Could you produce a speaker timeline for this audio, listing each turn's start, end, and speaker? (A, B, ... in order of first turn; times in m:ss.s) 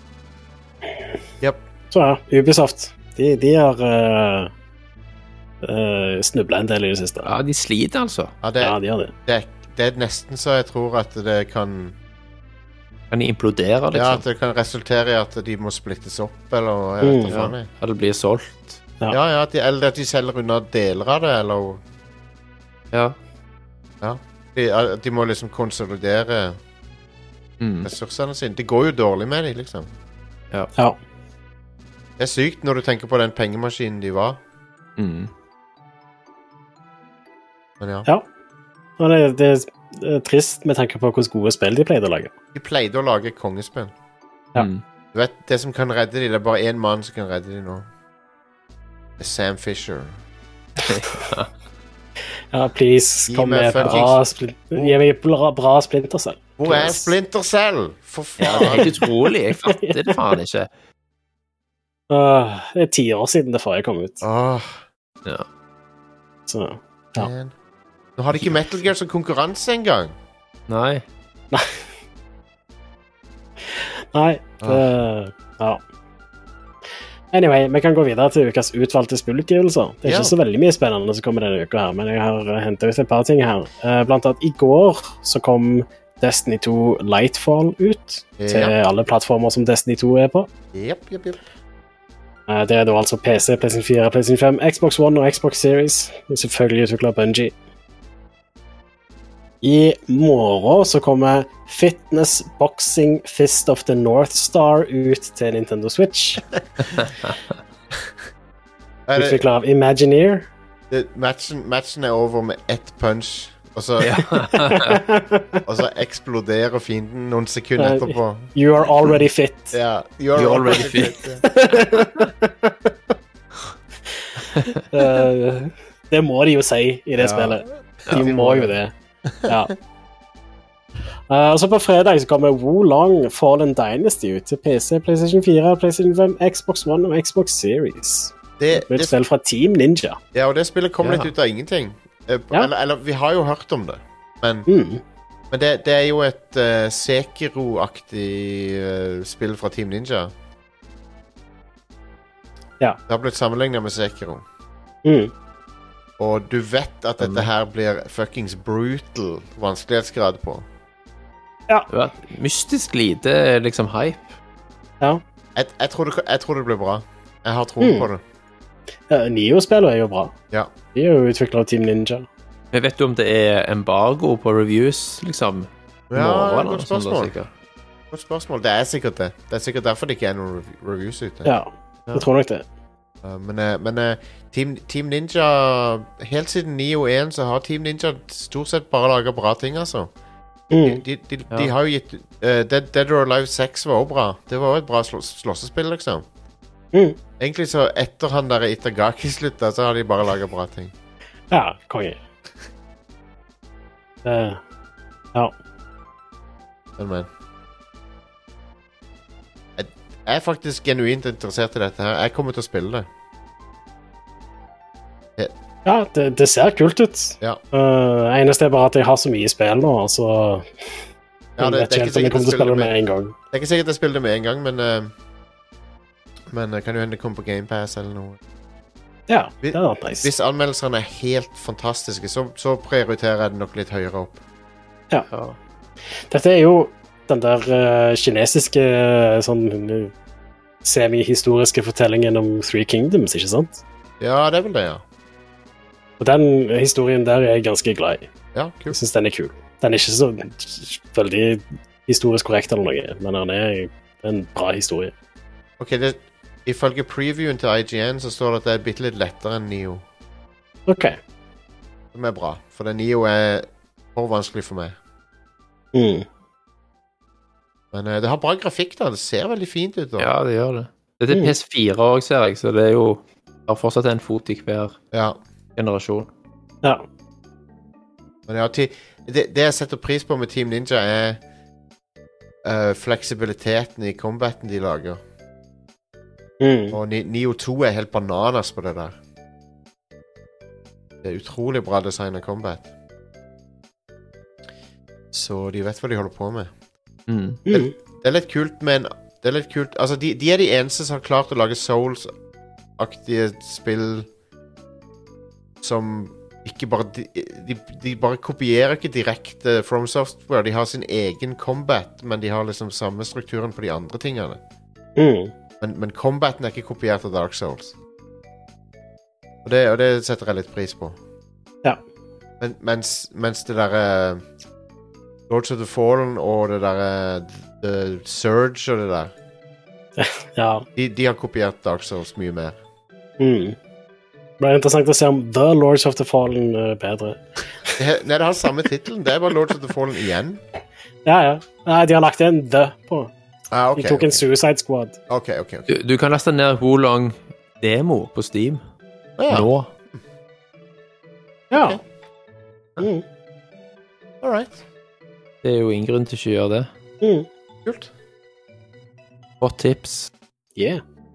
0:01.9-0:04.5 A
0:05.6-0:07.3 A
0:07.2-0:08.3 B
0:08.4-0:12.0 C
0:08.6-0:09.1 A
0:13.1-0:14.2 B
0:13.9-0:17.7 C
0:17.0-0:17.4 A
0:17.3-0:18.8 B
0:19.1-0:21.8 C
0:22.9-0:23.2 B
0:24.0-0:26.6 C
0:27.6-0:27.9 B
0:27.8-0:29.9 C
0:32.2-0:34.4 C
0:35.0-0:35.3 B
0:37.8-0:38.1 C
0:39.0-0:42.3 A
0:42.5-0:43.9 C
0:44.6-0:44.8 B
0:45.1-0:47.9 C
0:49.2-0:50.2 C
0:50.8-0:51.5 B
0:52.5-0:57.1 A
0:53.3-0:54.2 C
0:56.6-0:58.9 C
0:58.4-0:59.1 A
0:58.4-1:00.7 B
0:59.6-1:00.2 A
1:02.1-1:04.2 A
1:04.2-1:04.8 C
1:06.5-1:07.3 A
1:07.2-1:07.5 C
1:08.2-1:10.1 C
1:10.7-1:11.0 B
1:11.5-1:11.8 A
1:13.6-1:15.8 A
1:17.3-1:30.5 A
1:20.0-1:20.4 C
1:28.4-1:28.7 C
1:30.7-1:31.4 C
1:32.5-1:37.5 A
1:39.6-1:46.4 A
1:47.0-1:47.3 B
1:49.1-1:49.4 C
1:49.1-1:50.5 A
1:50.9-1:54.4 C
1:54.0-1:55.0 B
1:54.5-1:55.6 A
1:55.6-1:58.5 C
1:57.8-1:59.8 A
1:59.7-2:01.4 C
2:00.4-2:01.2 B
2:01.4-2:02.9 A
2:02.0-2:02.3 B
2:04.6-2:08.9 A
2:07.2-2:08.7 C
2:09.4-2:09.7 A
2:11.3-2:20.2 A
2:18.6-2:19.1 C
2:20.3-2:24.7 C
2:21.0-2:21.3 B
2:24.7-2:25.0 A
2:25.5-2:30.3 C
2:33.1-2:34.4 C
2:35.0-2:35.3 A
2:36.2-2:40.6 C
2:37.2-2:37.4 B
2:41.9-2:44.3 B
2:45.6-2:48.2 C
2:47.8-2:48.1 A
2:49.1-2:50.3 A
2:50.9-2:52.2 A
2:52.7-2:57.5 B
2:56.1-2:57.3 C
2:58.1-3:01.5 C
3:01.4-3:02.6 A
3:03.2-3:10.1 C
3:10.7-3:11.0 A
3:10.8-3:16.3 C
3:16.9-3:17.2 A
3:17.4-3:20.9 C
3:21.5-3:22.2 A
3:24.2-3:24.6 A
3:27.0-3:27.3 C
3:29.8-3:33.1 C
3:35.8-3:40.7 A
3:41.6-3:42.9 C
3:41.6-3:43.3 A
3:43.5-3:45.1 C
3:46.5-3:48.4 C
3:49.3-3:50.3 A
3:49.6-3:54.4 C
3:55.3-3:55.6 B
3:56.3-4:00.1 A
4:00.8-4:03.8 A
4:04.2-4:05.0 C
4:06.2-4:08.3 A
4:08.5-4:09.0 C
4:08.9-4:15.1 A
4:15.8-4:20.0 C
4:20.9-4:21.2 A
4:22.1-4:25.0 C
4:25.9-4:26.3 A
4:27.9-4:30.3 C
4:30.2-4:35.0 B
4:35.1-4:35.4 C
4:35.8-4:36.3 B
4:38.5-4:41.4 C
4:42.6-4:45.2 C
4:46.6-4:47.0 A
4:46.9-4:49.2 C
4:51.2-4:52.9 C
4:55.3-4:56.7 C
4:57.3-4:57.6 B
4:57.7-5:02.3 C
5:03.0-5:04.3 C
5:05.8-5:14.6 C
5:15.2-5:15.5 A
5:15.8-5:17.9 C
5:19.6-5:21.2 C
5:22.6-5:24.4 C
5:25.5-5:29.3 C
5:30.2-5:30.8 A
5:31.0-5:32.8 C
5:33.4-5:33.8 A
5:34.6-5:38.0 A
5:38.0-5:40.6 C
5:41.2-5:43.3 A
5:43.7-5:44.4 C
5:43.9-5:45.2 A
5:45.3-5:45.9 C
5:45.9-5:48.8 B
5:49.4-5:49.7 C
5:49.5-5:49.9 B
5:51.7-5:52.0 A
5:51.7-5:52.0 C
5:53.0-5:53.2 A
5:54.4-5:54.8 C
5:55.6-5:56.9 B
5:57.2-5:57.5 A
5:57.8-5:58.1 C
5:59.6-6:00.3 B
6:00.8-6:01.0 A